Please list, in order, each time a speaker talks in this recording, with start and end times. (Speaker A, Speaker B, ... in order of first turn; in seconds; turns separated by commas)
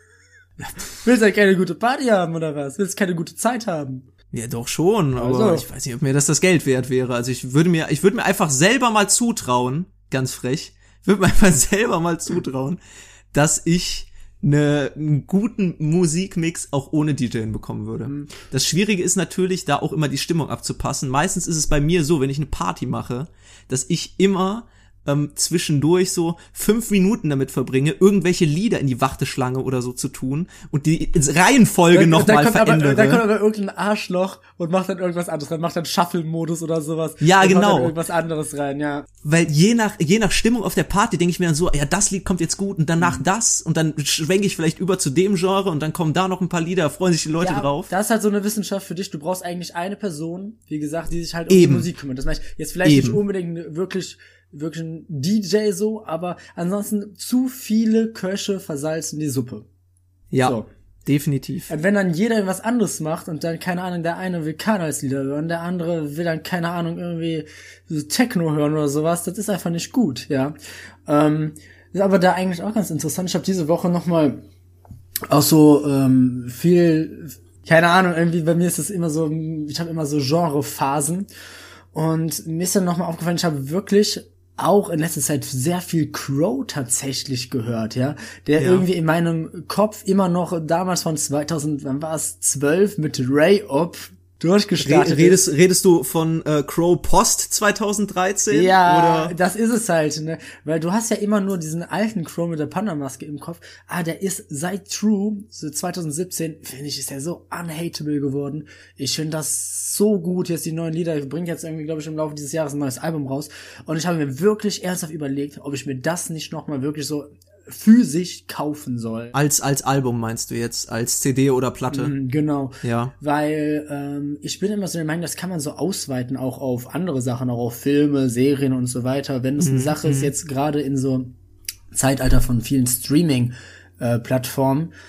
Speaker A: 0.6-4.1, Speaker B: 4.3-12.8, Speaker A: 5.2-5.7, Speaker B: 13.3-33.2, Speaker A: 18.0-18.3, Speaker A: 31.9-39.1, Speaker B: 37.2-37.9, Speaker B: 39.2-47.9, Speaker A: 47.4-59.6, Speaker B: 51.5-51.9, Speaker B: 52.8-53.2, Speaker B: 60.3-61.7, Speaker A: 60.4-60.7, Speaker A: 61.7-70.5, Speaker A: 71.0-74.4, Speaker A: 75.3-81.3, Speaker A: 81.9-95.4, Speaker B: 88.6-88.9, Speaker B: 94.8-99.3, Speaker A: 98.5-119.3, Speaker B: 119.3-122.1, Speaker A: 121.9-131.3, Speaker B: 122.8-123.1, Speaker B: 129.6-130.3, Speaker A: 131.9-134.9